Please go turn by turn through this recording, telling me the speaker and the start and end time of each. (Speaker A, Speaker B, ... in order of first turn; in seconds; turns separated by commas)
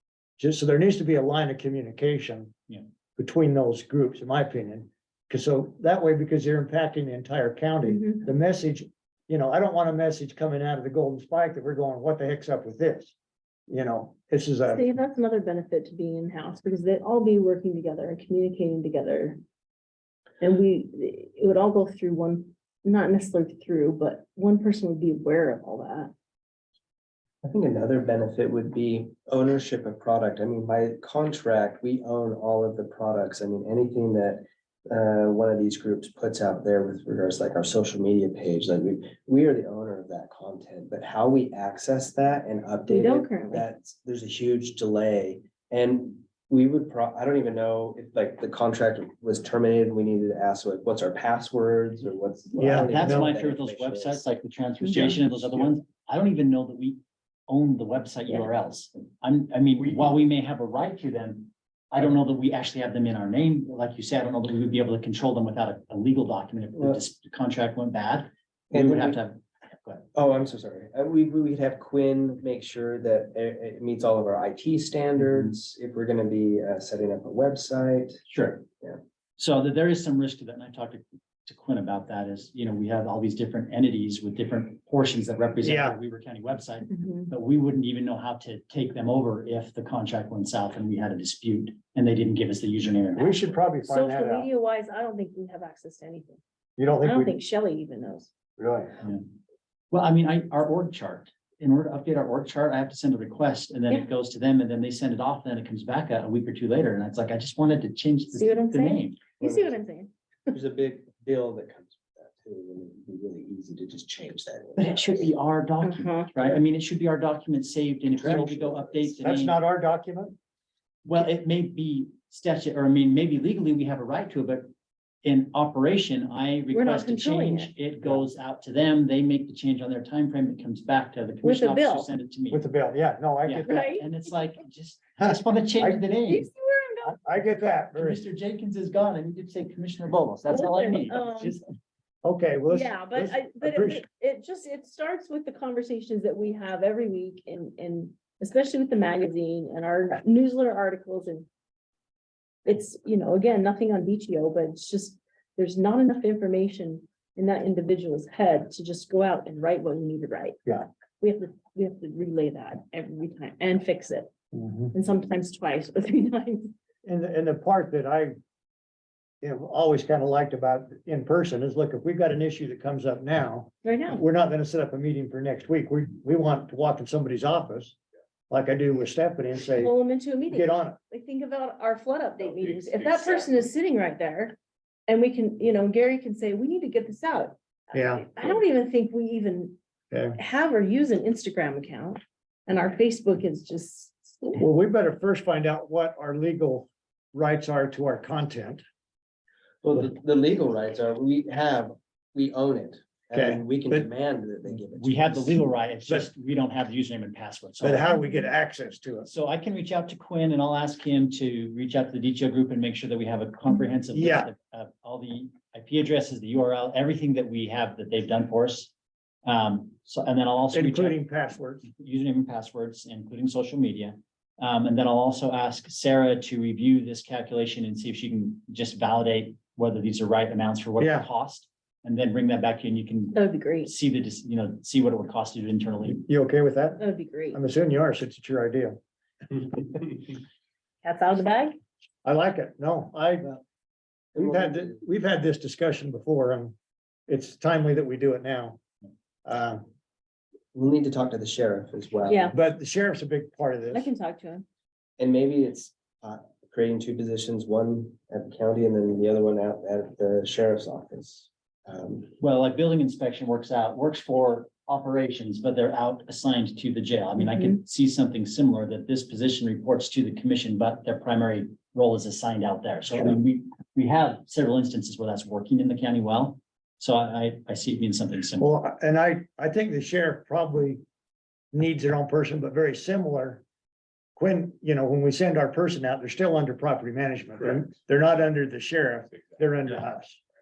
Speaker A: 0.4-2.6, Speaker A: 3.2-13.1, Speaker B: 7.8-8.3, Speaker A: 13.7-14.9, Speaker B: 14.7-19.4, Speaker B: 20.4-26.1, Speaker C: 27.4-54.2, Speaker B: 42.9-43.6, Speaker A: 52.6-53.3, Speaker D: 52.6-70.0, Speaker B: 54.9-55.2, Speaker C: 68.7-69.2, Speaker C: 70.2-78.2, Speaker D: 78.3-78.7, Speaker D: 79.4-93.4, Speaker A: 85.6-86.0, Speaker B: 86.9-87.3, Speaker A: 93.2-94.5, Speaker B: 93.8-96.4, Speaker A: 96.8-97.3, Speaker B: 97.0-98.3, Speaker A: 98.6-98.9, Speaker D: 99.9-109.2, Speaker B: 108.3-110.1, Speaker C: 109.4-109.8, Speaker C: 110.5-115.3, Speaker D: 114.8-119.6, Speaker B: 115.8-116.3, Speaker A: 118.2-120.4, Speaker D: 121.0-124.7, Speaker D: 125.2-132.6, Speaker B: 126.7-127.7, Speaker B: 131.4-132.1, Speaker A: 132.5-134.0, Speaker D: 133.4-136.5, Speaker B: 133.6-134.1, Speaker A: 135.2-136.0, Speaker B: 136.3-137.2, Speaker A: 137.0-138.2, Speaker D: 137.9-141.7, Speaker B: 140.5-141.6, Speaker A: 142.2-144.0, Speaker B: 142.7-151.5, Speaker B: 152.7-160.7, Speaker B: 161.2-164.3, Speaker A: 164.5-164.9, Speaker B: 164.9-166.7, Speaker A: 167.1-168.4, Speaker A: 169.4-178.0, Speaker B: 173.8-174.2, Speaker A: 178.5-179.9, Speaker B: 179.8-184.6, Speaker A: 180.5-181.0, Speaker B: 185.1-189.8, Speaker A: 187.9-188.6, Speaker A: 190.1-190.4, Speaker B: 190.4-194.6, Speaker A: 194.6-198.8, Speaker C: 199.8-205.6, Speaker A: 203.3-204.1, Speaker D: 204.9-208.1, Speaker A: 207.8-209.3, Speaker D: 209.3-218.9, Speaker A: 214.1-214.5, Speaker D: 219.4-221.2, Speaker A: 220.7-221.9, Speaker D: 221.8-236.2, Speaker A: 231.0-231.3, Speaker B: 233.3-233.9, Speaker A: 236.1-239.0, Speaker B: 237.0-237.6, Speaker B: 241.0-241.8, Speaker A: 242.2-243.6, Speaker C: 244.3-245.0, Speaker A: 244.3-246.8, Speaker A: 247.3-248.8, Speaker A: 249.5-249.8, Speaker C: 250.7-252.5, Speaker B: 252.3-252.6, Speaker A: 252.5-254.1, Speaker B: 253.9-254.7, Speaker C: 255.2-262.3, Speaker D: 262.4-278.6, Speaker A: 278.6-281.0, Speaker A: 281.7-283.6, Speaker A: 284.4-290.4